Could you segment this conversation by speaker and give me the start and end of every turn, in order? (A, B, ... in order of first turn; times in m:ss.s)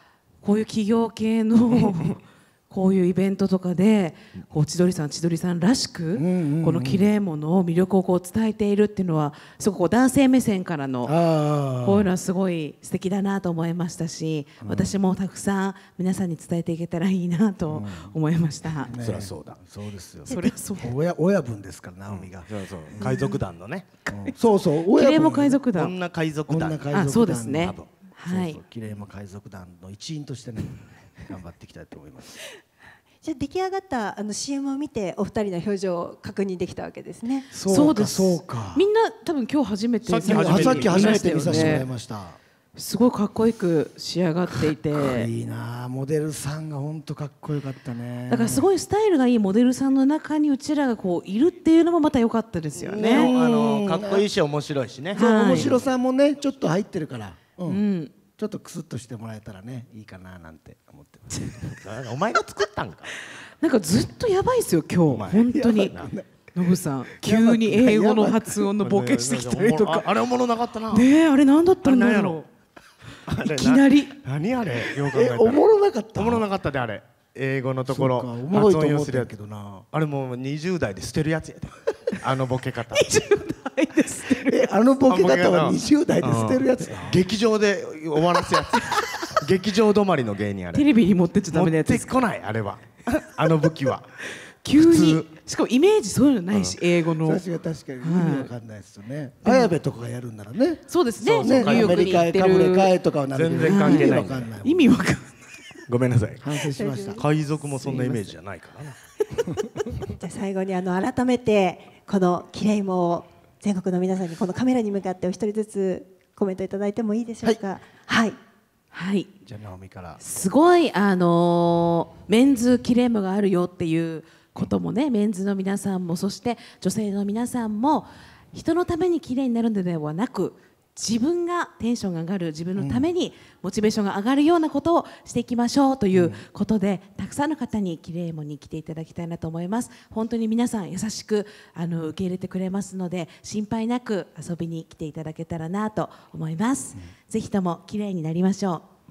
0:00.4-0:11.2 A
0:06.1-0:07.1 B
0:11.0-0:12.1 B
0:11.8-0:18.9 A
0:14.6-0:14.9 B
0:17.7-0:18.1 B
0:18.8-0:23.1 B
0:19.0-0:19.6 C
0:20.3-0:20.9 A
0:20.3-0:20.5 C
0:22.1-0:23.9 C
0:24.0-0:24.3 A
0:24.1-0:25.6 B
0:24.9-0:25.9 A
0:25.7-0:26.9 C
0:26.5-0:32.4 B
0:26.9-0:28.6 A
0:33.2-0:37.5 D
0:37.5-0:38.8 B
0:37.7-0:41.9 A
0:40.0-0:41.8 C
0:40.2-0:42.4 B
0:42.8-0:45.3 A
0:44.9-0:48.7 B
0:48.3-0:53.3 A
0:52.8-0:55.9 C
0:53.0-0:54.2 B
0:55.1-0:55.8 A
0:55.2-0:57.8 B
0:57.7-0:58.1 A
0:58.4-1:01.5 B
1:01.3-1:01.6 A
1:01.8-1:03.1 C
1:03.6-1:05.9 A
1:05.1-1:06.0 C
1:05.4-1:06.3 B
1:06.5-1:10.1 A
1:07.2-1:08.7 B
1:08.8-1:11.1 C
1:10.9-1:12.5 A
1:11.8-1:12.4 C
1:13.2-1:15.6 C
1:13.4-1:14.1 A
1:15.1-1:16.4 B
1:16.2-1:19.3 C
1:17.9-1:19.8 B
1:19.9-1:23.0 C
1:22.9-1:24.7 A
1:24.4-1:27.2 B
1:25.1-1:30.8 C
1:30.7-1:32.2 A
1:31.5-1:34.1 C
1:34.6-1:37.4 A
1:34.8-1:35.2 C
1:36.5-1:36.8 C
1:37.2-1:44.9 B
1:38.0-1:38.5 A
1:39.4-1:39.7 A
1:40.9-1:42.9 A
1:41.3-1:42.3 C
1:43.3-1:44.5 C
1:43.6-1:45.4 A
1:45.9-1:46.6 C
1:46.4-1:47.2 B
1:46.8-1:47.2 D
1:47.1-1:49.0 C
1:47.8-1:48.2 A
1:50.1-1:58.4 D
1:58.9-1:59.3 A
1:59.4-2:00.2 B
2:00.2-2:28.8 A
2:12.8-2:13.1 B
2:16.1-2:16.4 B